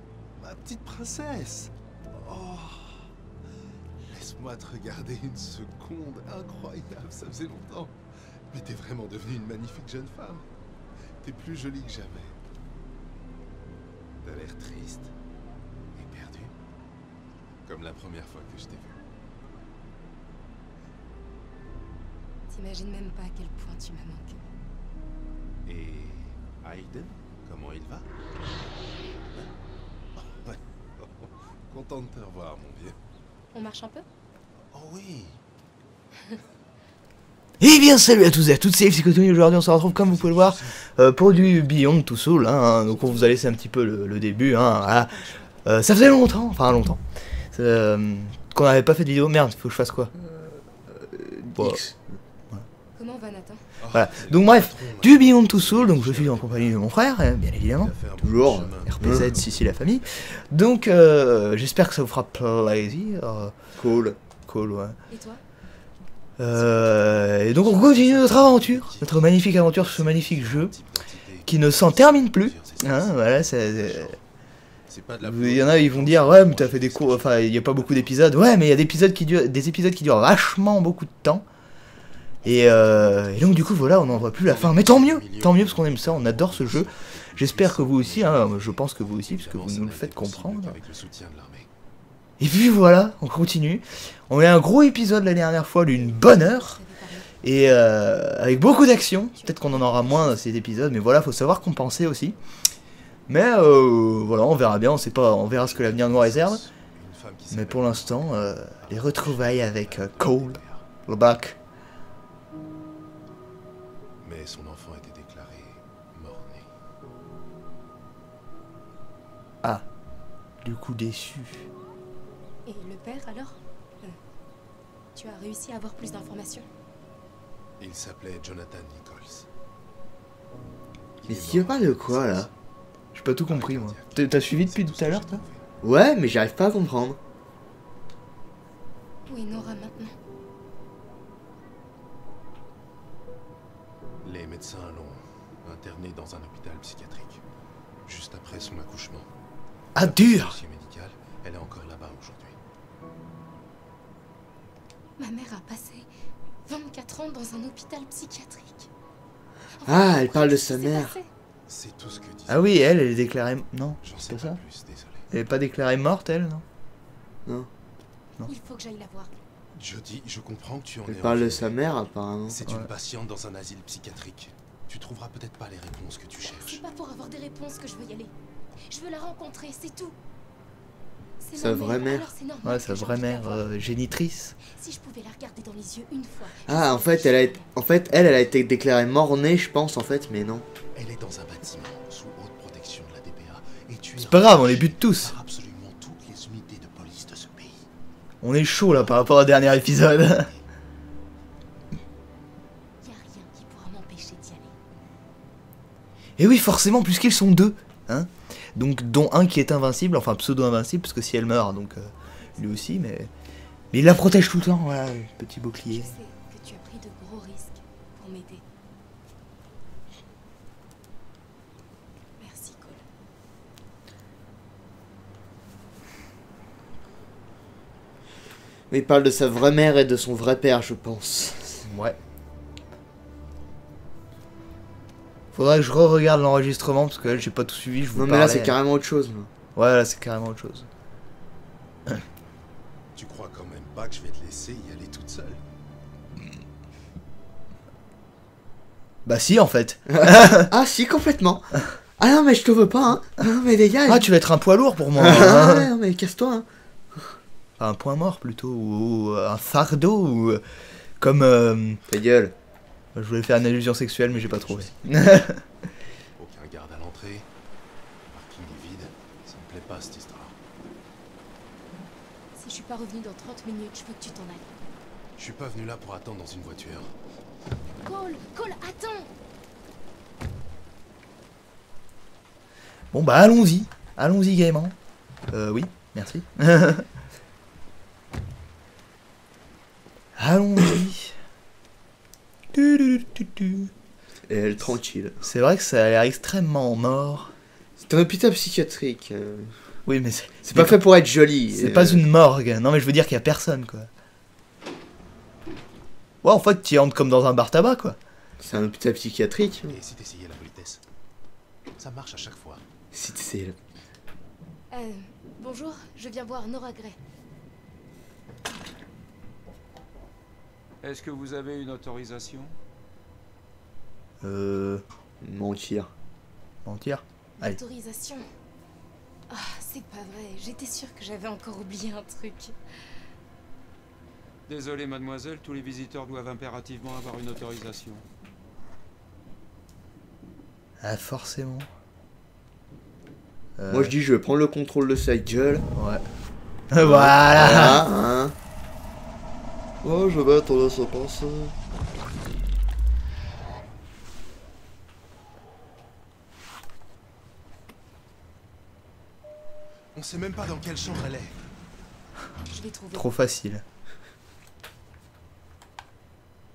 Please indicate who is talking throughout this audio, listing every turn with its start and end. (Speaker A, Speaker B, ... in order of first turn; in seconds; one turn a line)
Speaker A: 0.4-3.0
Speaker A: 4.1-7.9
Speaker A: 8.5-10.4
Speaker A: 11.2-12.3
Speaker A: 14.2-15.1
Speaker A: 15.9-16.5
Speaker A: 17.6-19.0
Speaker B: 22.5-24.4
Speaker A: 25.6-28.0
Speaker A: 30.1-33.0
Speaker B: 33.5-34.0
Speaker A: 34.7-35.4
Speaker C: 37.6-50.1
Speaker A: 39.8-40.8
Speaker B: 42.9-43.3
Speaker B: 44.9-45.5
Speaker D: 50.2-52.2
Speaker C: 51.5-51.8
Speaker B: 53.0-53.6
Speaker A: 53.8-57.0
Speaker C: 53.9-57.9
Speaker A: 57.6-59.6
Speaker D: 58.2-59.3
Speaker C: 58.8-63.5
Speaker D: 63.8-64.2
Speaker C: 64.5-65.0
Speaker B: 65.1-65.4
Speaker C: 66.4-70.7
Speaker A: 66.5-74.2
Speaker C: 71.5-74.2
Speaker A: 74.9-78.2
Speaker C: 75.2-81.4
Speaker C: 82.4-90.8
Speaker A: 83.5-91.7
Speaker C: 92.4-96.8
Speaker B: 95.9-97.3
Speaker C: 97.4-102.4
Speaker B: 99.3-100.4
Speaker C: 103.3-106.6
Speaker A: 105.5-110.8
Speaker C: 107.5-111.6
Speaker A: 114.2-116.7
Speaker C: 120.6-121.7
Speaker B: 122.7-124.2
Speaker B: 125.1-126.7
Speaker A: 127.8-129.5
Speaker A: 131.2-132.5
Speaker D: 131.3-132.5
Speaker C: 133.1-135.4
Speaker A: 133.5-135.6
Speaker D: 135.8-137.2
Speaker B: 139.3-140.2
Speaker A: 144.2-147.4
Speaker A: 148.1-149.3
Speaker C: 149.9-150.6
Speaker A: 149.9-152.6
Speaker B: 155.2-156.1
Speaker B: 156.7-158.9
Speaker B: 159.8-161.3
Speaker D: 159.8-161.1
Speaker A: 161.7-163.0
Speaker C: 162.5-164.6
Speaker A: 164.0-165.3
Speaker C: 165.3-166.6
Speaker B: 168.4-169.3
Speaker A: 169.7-171.8
Speaker D: 171.1-172.6
Speaker A: 172.5-176.8
Speaker B: 176.4-178.3
Speaker B: 178.9-180.2
Speaker B: 181.4-183.6
Speaker D: 181.6-182.3
Speaker C: 182.6-184.6
Speaker B: 184.6-187.7
Speaker D: 186.7-190.7
Speaker A: 190.9-197.8
Speaker C: 194.2-195.3
Speaker C: 198.4-200.5
Speaker B: 203.0-204.7
Speaker C: 206.4-213.3
Speaker C: 213.9-216.2
Speaker B: 215.8-218.6
Speaker B: 222.4-223.0
Speaker D: 228.9-231.8
Speaker C: 231.8-232.2
Speaker C: 235.5-238.8
Speaker D: 238.1-239.5
Speaker C: 239.7-240.9
Speaker A: 243.1-245.6
Speaker C: 249.2-250.7
Speaker D: 250.1-254.3
Speaker C: 254.1-255.9
Speaker D: 255.2-257.4
Speaker C: 257.8-260.6
Speaker C: 261.2-262.0
Speaker D: 262.1-262.5
Speaker C: 263.1-265.6
Speaker A: 264.3-265.1
Speaker A: 266.4-267.4
Speaker A: 268.3-270.5
Speaker B: 272.6-274.6
Speaker A: 275.4-277.1
Speaker B: 278.0-279.3
Speaker C: 283.1-284.9
Speaker C: 285.5-287.1
Speaker C: 290.4-291.4
Speaker C: 292.7-293.9
Speaker D: 294.5-295.4
Speaker C: 295.4-297.5
Speaker D: 298.0-299.7
Speaker C: 300.1-301.0
Speaker D: 300.6-302.2
Speaker C: 301.7-304.1
Speaker C: 306.4-308.2
Speaker D: 308.6-309.9
Speaker A: 309.9-311.0
Speaker A: 312.0-312.8
Speaker D: 313.1-313.8
Speaker B: 314.9-317.2
Speaker E: 321.0-322.7
Speaker C: 324.4-325.0
Speaker D: 325.4-326.1
Speaker C: 326.8-327.8
Speaker B: 327.6-328.5
Speaker B: 329.5-332.7
Speaker E: 334.7-338.2
Speaker C: 341.0-341.9
Speaker C: 343.8-344.1
Speaker D: 343.9-345.9
Speaker C: 345.9-346.2
Speaker C: 346.9-348.1
Speaker D: 347.0-348.5
Speaker D: 350.0-351.7
Speaker A: 360.1-361.6
Speaker B: 362.7-363.3
Speaker C: 363.1-363.8